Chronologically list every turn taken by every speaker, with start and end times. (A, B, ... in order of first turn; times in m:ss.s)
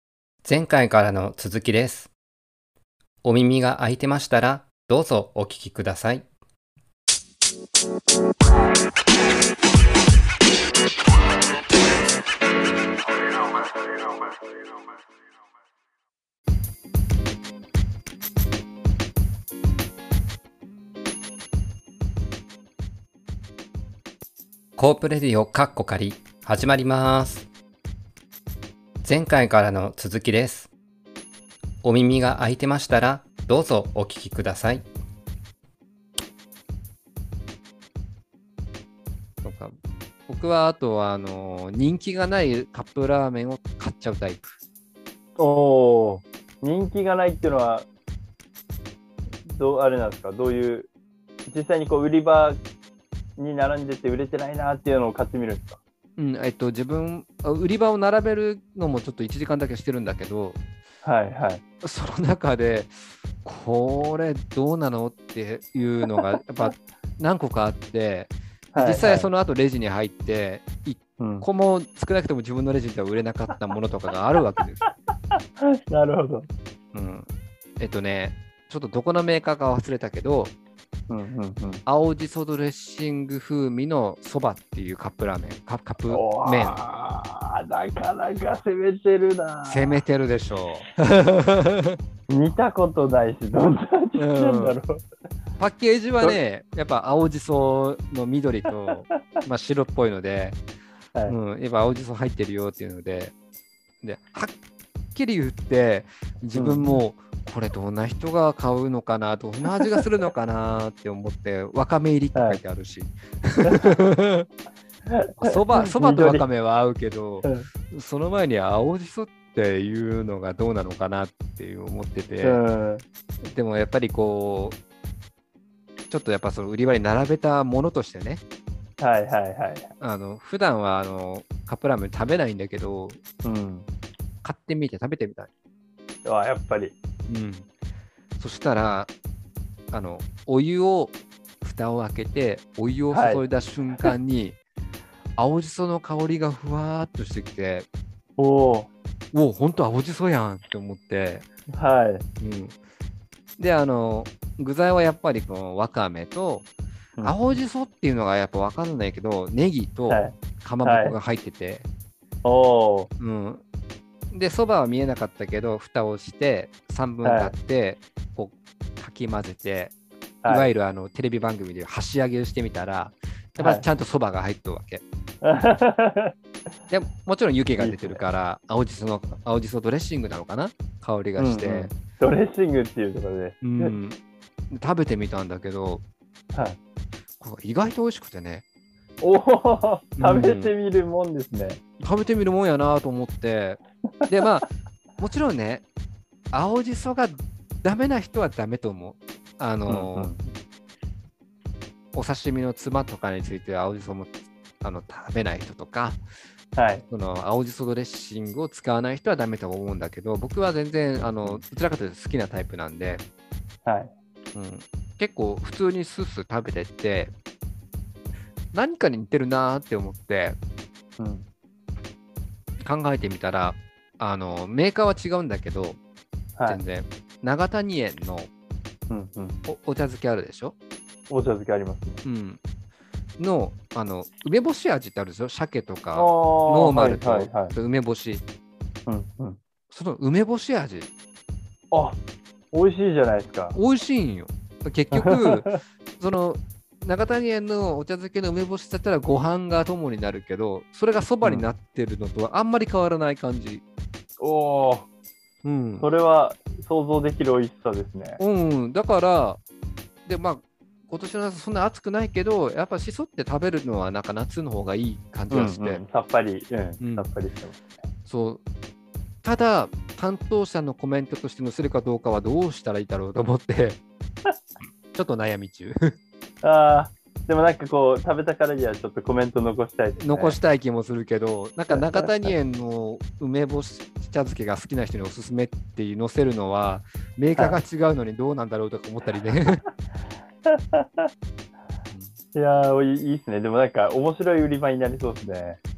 0:00.4-0:02.1 A
0:03.2-0:06.3 A
0:24.8-0:27.5 A
0:29.0-0:30.7 A
0:31.8-0:34.9 A
0:39.4-0:39.8 B
0:40.3-0:44.6 B
0:45.4-0:47.9 C
0:49.4-0:50.9 C
0:51.5-0:52.6 C
0:53.4-0:55.8 C
0:56.2-1:00.6 B
1:01.0-1:01.6 C
1:01.8-1:14.9 B
1:08.7-1:09.3 C
1:11.2-1:11.5 C
1:15.3-1:16.5 C
1:16.9-1:17.3 B
1:17.8-1:20.5 B
1:21.1-1:21.8 C
1:21.9-1:26.8 B
1:26.1-1:30.0 C
1:29.6-1:32.0 B
1:32.3-1:35.0 C
1:34.2-1:34.8 B
1:35.6-1:40.6 B
1:41.3-1:43.3 B
1:44.0-1:44.5 B
1:45.1-1:54.5 B
1:46.6-1:47.0 C
1:49.7-1:49.9 C
1:52.4-1:52.6 C
1:53.6-1:54.0 C
1:55.1-1:56.4 C
1:55.4-2:02.6 B
1:57.4-1:57.7 C
2:02.4-2:03.0 C
2:03.4-2:04.8 B
2:06.1-2:08.4 B
2:09.0-2:09.9 C
2:10.0-2:13.2 B
2:13.4-2:13.9 C
2:14.4-2:15.5 B
2:16.2-2:17.0 C
2:17.3-2:17.7 B
2:18.4-2:19.1 B
2:19.9-2:24.6 B
2:23.1-2:23.5 C
2:25.4-2:27.9 B
2:28.4-2:28.9 C
2:29.3-2:31.4 B
2:31.7-2:32.2 C
2:32.4-2:32.8 B
2:33.6-2:36.7 B
2:37.2-2:37.6 C
2:37.2-2:41.9 B
2:40.1-2:41.2 C
2:42.4-2:43.1 C
2:43.2-2:43.6 B
2:44.3-2:49.9 B
2:47.2-2:47.6 C
2:50.4-2:50.7 C
2:50.5-2:55.0 B
2:53.6-2:53.9 C
2:55.4-2:56.3 C
2:56.9-3:01.9 B
2:57.8-2:58.2 C
3:01.4-3:04.0 C
3:03.6-3:04.2 B
3:04.7-3:06.0 B
3:07.4-3:08.6 B
3:09.2-3:11.8 C
3:10.2-3:10.7 B
3:12.0-3:15.8 B
3:16.5-3:20.3 B
3:19.9-3:20.5 C
3:22.1-3:26.2 B
3:26.8-3:27.0 C
3:27.1-3:33.2 B
3:33.8-3:34.1 C
3:34.6-3:37.3 B
3:38.7-3:40.6 B
3:41.2-3:41.5 C
3:42.8-3:46.0 B
3:46.7-3:48.5 B
3:49.1-3:49.6 C
3:49.7-3:50.8 B
3:51.3-3:52.2 C
3:52.2-3:52.6 B
3:53.4-3:58.4 B
3:56.1-3:57.8 C
3:59.1-3:59.6 C
3:59.9-4:01.1 B
4:01.9-4:02.2 C
4:02.7-4:03.8 C
4:03.7-4:13.8 B
4:05.1-4:05.8 C
4:11.4-4:11.7 C
4:14.4-4:15.1 C
4:15.6-4:16.1 B
4:16.0-4:18.4 C
4:18.4-4:19.6 B
4:20.3-4:26.0 B
4:25.5-4:27.8 C
4:27.0-4:27.3 B
4:28.3-4:28.6 B
4:29.4-4:34.0 B
4:35.1-4:36.1 B
4:36.6-4:40.6 C
4:40.2-4:49.8 B
4:41.9-4:42.6 C
4:47.6-4:47.8 C
4:50.7-4:51.3 C
4:52.1-4:52.4 B
4:52.5-4:55.8 C